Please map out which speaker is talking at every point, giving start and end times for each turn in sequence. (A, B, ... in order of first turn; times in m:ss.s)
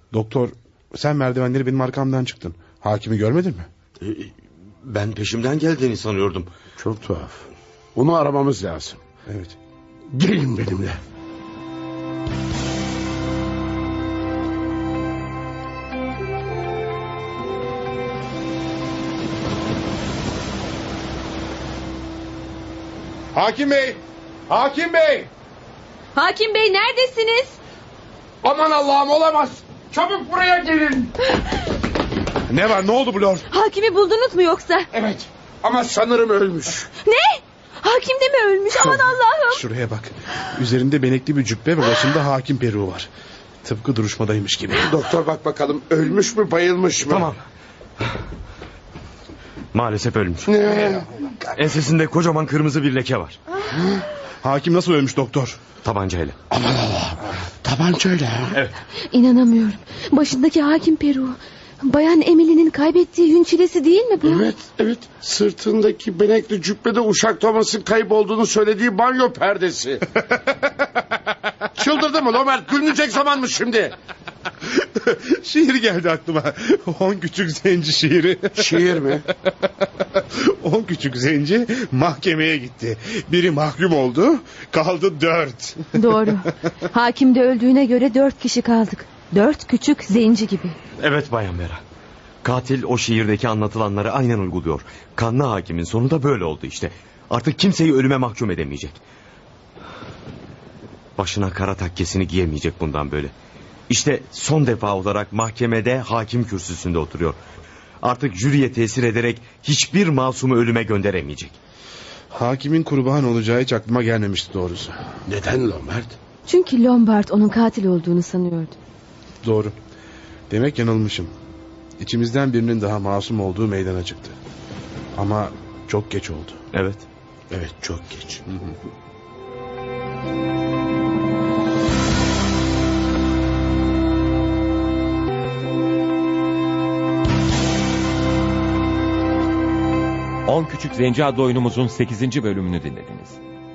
0:00.1-0:03.7 A
0:04.0-0:04.3 B
0:04.8-0:06.5 B
0:06.8-0:09.0 C
0:09.3-0:09.6 A
0:10.1-0:11.0 C
0:23.3-0:25.3 A
0:26.2-0:27.6 D
0:28.4-0:31.1 C
0:32.5-0:33.5 A
0:33.5-0:34.9 D
0:34.9-0:36.9 C
0:37.0-0:39.6 D
0:39.5-0:43.1 A
0:43.6-0:44.9 A
0:44.8-0:47.3 C
0:47.1-0:47.4 B
0:49.7-0:51.0 B
0:50.5-0:51.1 C
0:51.5-0:53.4 B
0:54.4-0:55.6 A
0:55.8-0:56.4 B
0:56.5-0:58.6 C
0:59.1-1:04.4 D
1:04.2-1:10.1 C
1:11.8-1:14.0 C
1:14.8-1:18.8 A
1:18.6-1:19.2 C
1:20.2-1:26.4 A
1:26.0-1:30.8 D
1:31.0-1:31.8 B
1:32.4-1:39.0 B
1:41.2-1:43.3 B
1:43.9-1:47.4 B
1:48.0-1:51.6 B
1:52.3-1:55.0 A
1:55.3-1:56.2 C
1:56.5-1:58.8 D
1:59.4-1:59.7 A
2:00.5-2:01.3 A
2:02.0-2:04.4 A
2:05.2-2:06.6 A
2:06.7-2:07.1 B
2:07.5-2:08.4 C
2:20.5-2:23.4 E